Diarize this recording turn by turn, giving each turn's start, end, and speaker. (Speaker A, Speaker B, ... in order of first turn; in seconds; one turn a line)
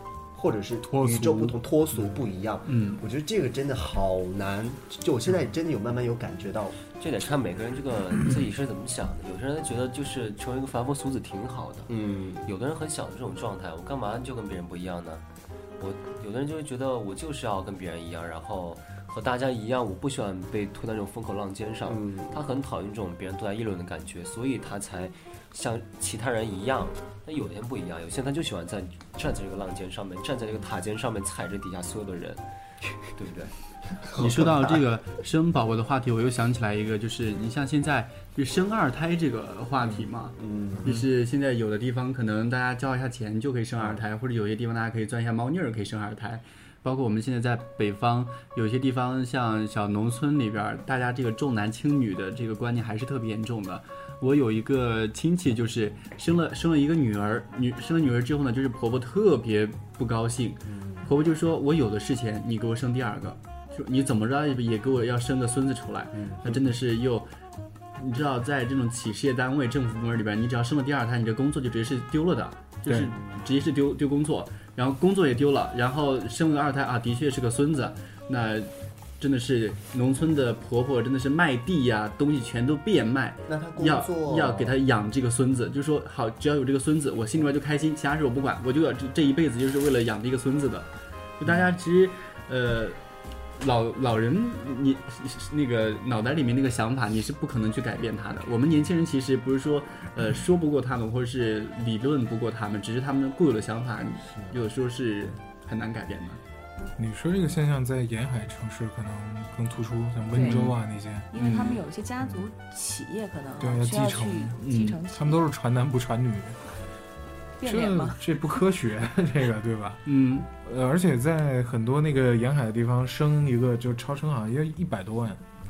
Speaker A: 0.3-6.8
Speaker B: 0.9-1.6
Speaker C: 2.7-3.0
Speaker D: 7.0-11.9
Speaker A: 11.9-12.4
Speaker D: 12.4-15.2
Speaker D: 15.8-32.4
Speaker A: 21.9-22.4
Speaker D: 33.1-33.5
Speaker A: 34.0-34.8
Speaker C: 34.1-67.3
Speaker A: 39.8-41.0
Speaker A: 43.8-44.0
Speaker A: 60.7-61.1
Speaker A: 66.1-66.6
Speaker C: 67.9-93.0
Speaker A: 83.5-84.8
Speaker C: 93.6-106.4
Speaker B: 107.0-111.4
Speaker E: 110.3-110.6
Speaker C: 110.4-110.8
Speaker E: 111.3-115.4
Speaker C: 111.3-111.8
Speaker B: 113.6-116.6
Speaker C: 114.6-115.0
Speaker E: 117.6-118.4
Speaker B: 117.6-125.4
Speaker C: 120.0-120.5